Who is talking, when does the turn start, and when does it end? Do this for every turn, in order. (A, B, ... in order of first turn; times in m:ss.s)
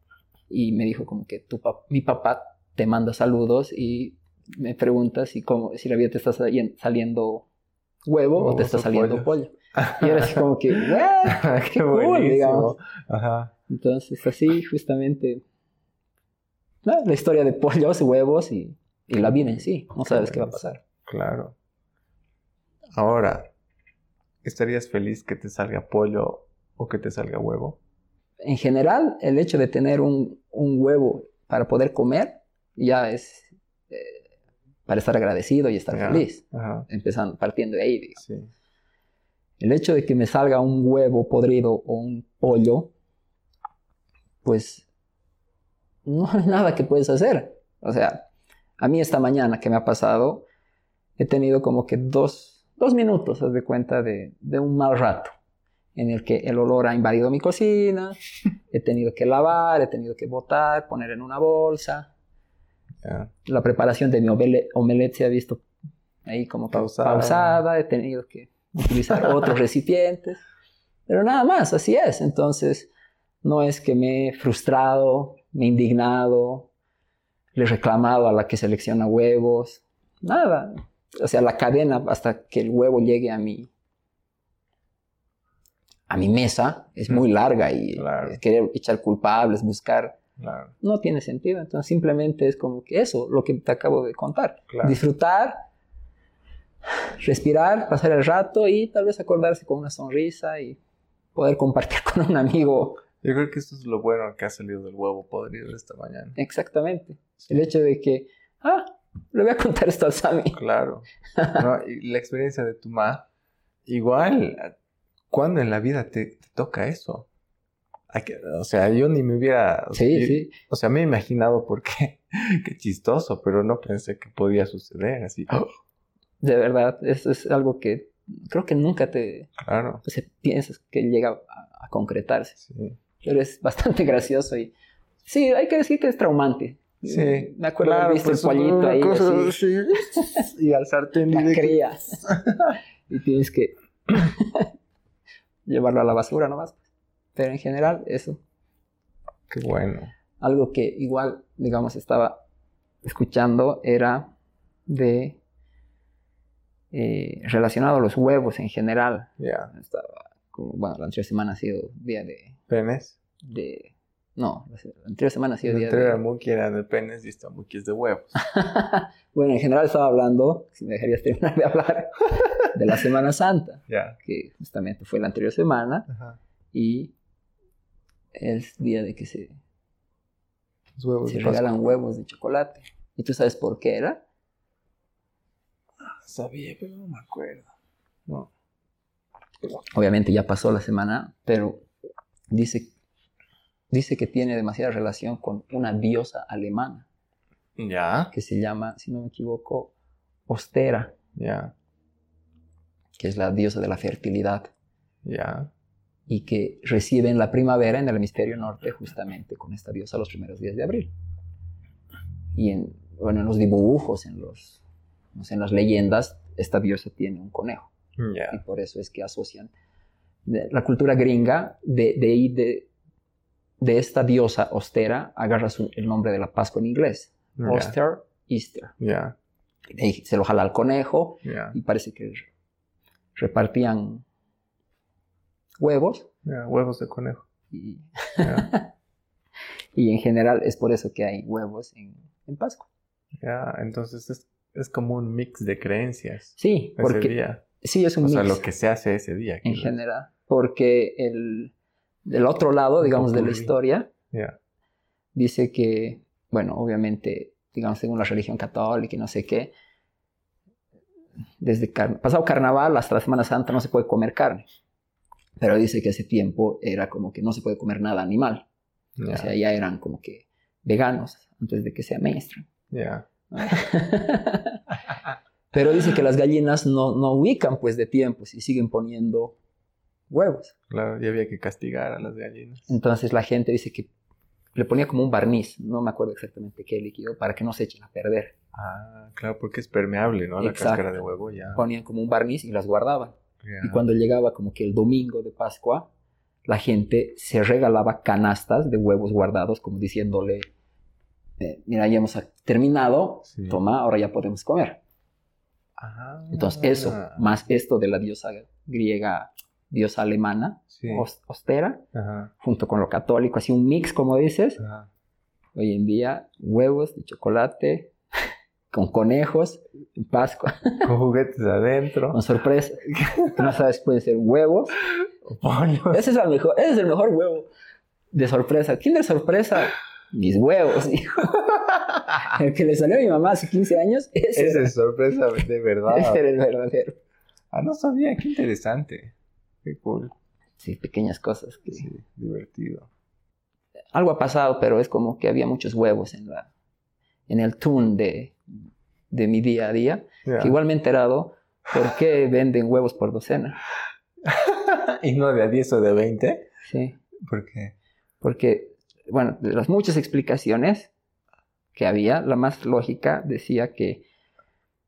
0:00.5-0:07.5 A
0:08.1-0:12.8 A
0:08.4-0:10.5 B
0:11.2-0:13.5 B
0:13.7-0:15.4 A
0:16.8-0:20.8 A
0:19.2-0:21.6 B
0:23.0-0:23.5 B
0:24.4-0:27.8 B
0:28.4-0:34.2 A
0:34.9-0:38.2 A
0:35.9-0:36.9 B
0:38.2-0:38.5 B
0:39.6-0:42.9 A
0:44.4-0:44.9 A
0:46.1-0:48.3 A
0:48.8-0:50.5 A
0:51.2-0:55.3 A
0:56.0-0:58.2 A
0:58.7-1:02.1 A
1:03.0-1:03.3 B
1:03.4-1:05.6 A
1:06.2-1:10.4 A
1:06.7-1:07.6 B
1:11.1-1:12.9 A
1:13.4-1:16.7 A
1:17.6-1:23.7 A
1:26.1-1:30.2 A
1:28.0-1:28.4 B
1:30.4-1:30.7 B
1:30.8-1:35.6 A
1:34.7-1:35.0 B
1:37.2-1:40.8 A
1:41.4-1:43.0 A
1:43.2-1:46.4 B
1:46.4-1:50.6 A
1:50.5-1:53.3 B
1:51.4-1:51.6 A
1:53.9-1:54.7 B
1:55.3-1:57.3 B
1:58.1-2:05.7 B
1:59.9-2:00.5 A
2:06.4-2:12.6 A
2:09.6-2:10.0 B
2:12.6-2:13.0 B
2:13.2-2:14.7 A
2:15.2-2:20.4 A
2:17.0-2:22.7 B
2:21.3-2:22.4 A
2:23.1-2:24.7 A
2:25.6-2:28.4 A
2:29.5-2:30.1 B
2:30.4-2:32.4 A
2:33.0-2:34.3 A
2:34.9-2:35.4 A
2:36.9-2:42.6 A
2:39.4-2:39.7 B
2:42.7-2:43.2 B
2:43.4-2:46.2 A
2:45.6-2:48.4 B
2:48.4-2:56.1 A
2:53.9-2:54.2 B
2:56.1-2:56.4 B
2:56.7-2:57.1 A
2:58.4-2:59.6 A
3:01.0-3:01.7 B
3:01.2-3:04.2 A
3:06.0-3:07.7 B
3:09.9-3:11.9 A
3:12.5-3:12.9 A
3:13.9-3:17.1 A
3:17.8-3:18.3 B
3:18.3-3:19.9 A
3:20.5-3:21.1 A
3:21.4-3:21.7 B
3:23.2-3:24.7 A
3:25.2-3:25.7 B
3:26.3-3:31.1 A
3:32.6-3:34.8 A
3:35.3-3:37.9 A
3:38.2-3:38.6 B
3:38.5-3:39.7 A
3:40.5-3:42.9 A
3:43.8-3:48.9 A
3:47.6-3:48.0 B
3:49.0-3:49.4 B
3:50.0-3:52.5 A
3:51.4-3:51.8 B
3:53.4-3:54.2 A
3:55.8-3:56.3 A
3:56.4-3:57.4 B
3:57.7-3:58.9 A
3:58.4-3:58.7 B
4:00.0-4:02.9 A
4:03.4-4:07.6 B
4:06.6-4:08.6 A
4:08.2-4:10.0 B
4:09.6-4:11.7 A
4:12.3-4:14.1 A
4:13.0-4:13.8 B
4:14.3-4:14.6 B
4:15.4-4:19.7 A
4:21.6-4:24.7 A
4:25.6-4:28.6 A
4:29.2-4:29.5 B
4:29.3-4:32.7 A
4:32.9-4:33.3 B
4:33.5-4:34.8 A
4:35.7-4:39.6 A
4:40.3-4:40.7 A
4:40.9-4:42.9 B
4:42.9-4:44.1 A
4:44.8-4:48.6 A
4:48.7-4:51.8 B
4:50.6-4:51.1 A
4:51.8-4:56.1 A
4:53.6-4:54.0 B
4:56.6-5:00.7 A
5:01.6-5:05.0 A
5:03.5-5:03.8 B
5:06.0-5:07.5 B
5:06.5-5:12.0 A
5:10.9-5:11.2 B
5:12.1-5:12.5 B
5:12.6-5:14.8 A
5:14.8-5:15.1 B
5:15.8-5:18.1 A
5:18.9-5:21.1 A
5:21.0-5:22.4 B
5:22.3-5:25.0 A
5:23.1-5:23.6 B
5:25.4-5:26.2 B
5:26.1-5:27.7 A
5:28.3-5:34.9 A
5:34.6-5:36.4 B
5:36.1-5:37.2 A
5:37.7-5:39.3 B
5:39.8-5:40.3 B
5:40.8-5:42.1 A
5:41.9-5:43.1 B
5:44.1-5:46.7 A
5:47.5-5:48.6 A
5:49.3-5:53.8 A
5:50.4-5:50.8 B
5:54.4-5:56.7 B
5:56.8-5:57.2 A
5:57.4-5:58.0 B
5:58.4-6:01.1 A
6:01.9-6:04.2 A